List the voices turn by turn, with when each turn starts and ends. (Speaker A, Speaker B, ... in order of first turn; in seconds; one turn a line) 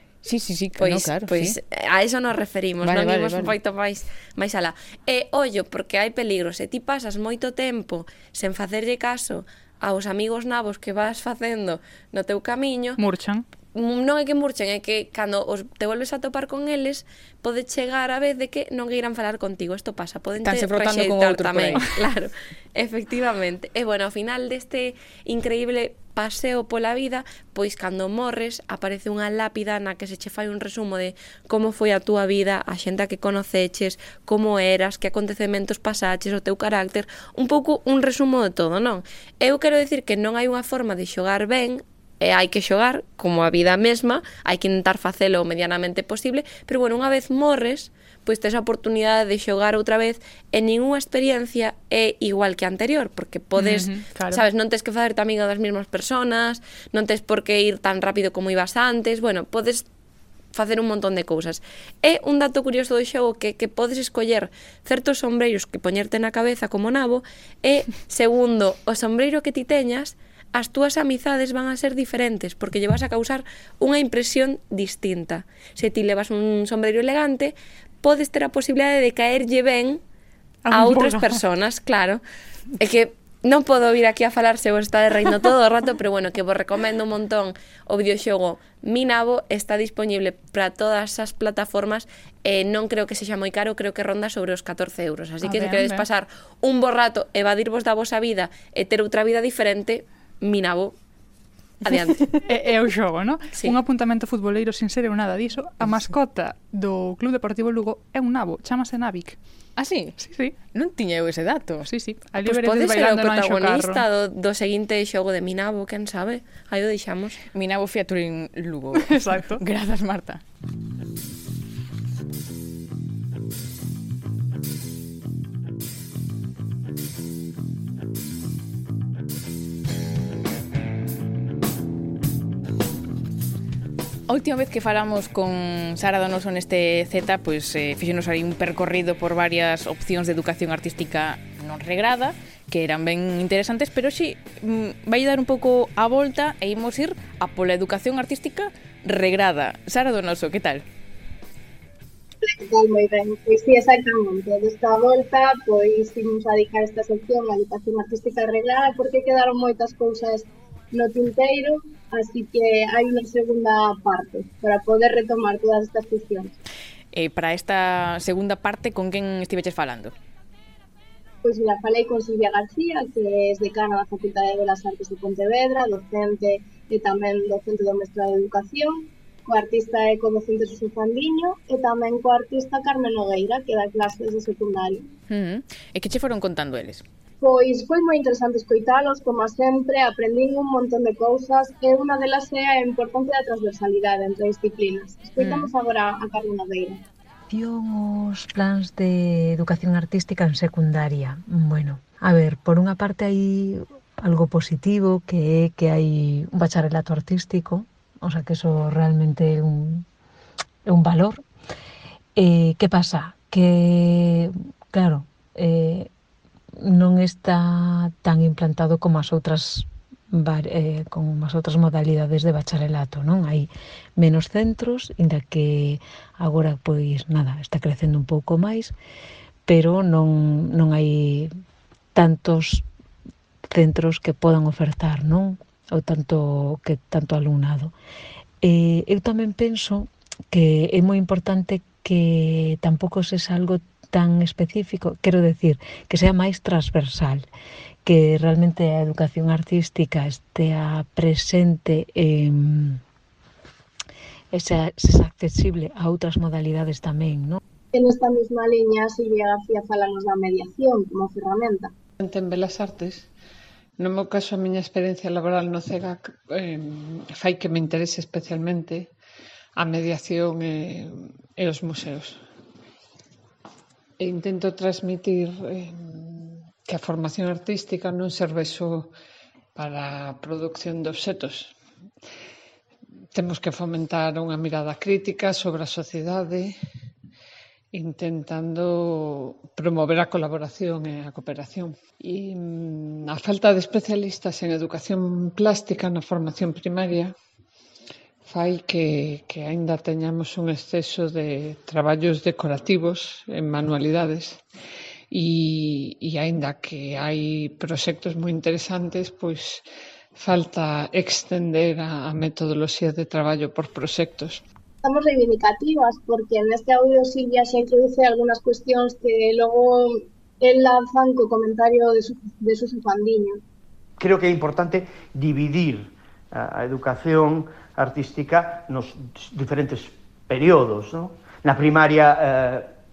Speaker A: 0.2-1.6
Speaker B: 0.8-13.0
Speaker A: 2.8-3.5
Speaker C: 13.0-13.4
Speaker B: 13.7-59.9
Speaker A: 20.4-21.8
Speaker C: 53.5-54.4
Speaker B: 60.5-80.0
Speaker C: 80.6-81.4
Speaker B: 80.7-82.2
Speaker B: 82.8-100.9
Speaker C: 95.4-96.0
Speaker B: 101.8-102.3
Speaker C: 102.5-109.4
Speaker A: 109.8-111.9
Speaker C: 110.2-110.5
Speaker C: 111.8-114.0
Speaker B: 112.4-117.4
Speaker A: 117.5-120.4
Speaker C: 119.0-119.6
Speaker A: 134.3-150.8
Speaker D: 152.4-166.5
Speaker A: 167.1-170.1
Speaker D: 171.4-185.1
Speaker A: 185.3-187.0
Speaker D: 187.4-197.0
Speaker A: 195.4-195.7
Speaker E: 197.5-210.0
Speaker E: 210.9-211.4
Speaker E: 212.3-216.1
Speaker E: 216.8-228.9
Speaker E: 229.7-231.5
Speaker E: 232.1-232.8
Speaker E: 233.7-237.9
Speaker E: 238.6-247.5
Speaker E: 248.0-253.0
Speaker E: 254.5-257.6
Speaker D: 257.9-261.9
Speaker F: 262.2-263.3
Speaker F: 264.0-269.1
Speaker F: 269.8-272.4
Speaker F: 274.2-279.1
Speaker F: 279.8-281.7
Speaker F: 283.3-286.8
Speaker F: 287.9-297.3
Speaker F: 298.4-304.6
Speaker F: 305.3-314.6
Speaker D: 315.0-323.6
Speaker G: 324.2-332.9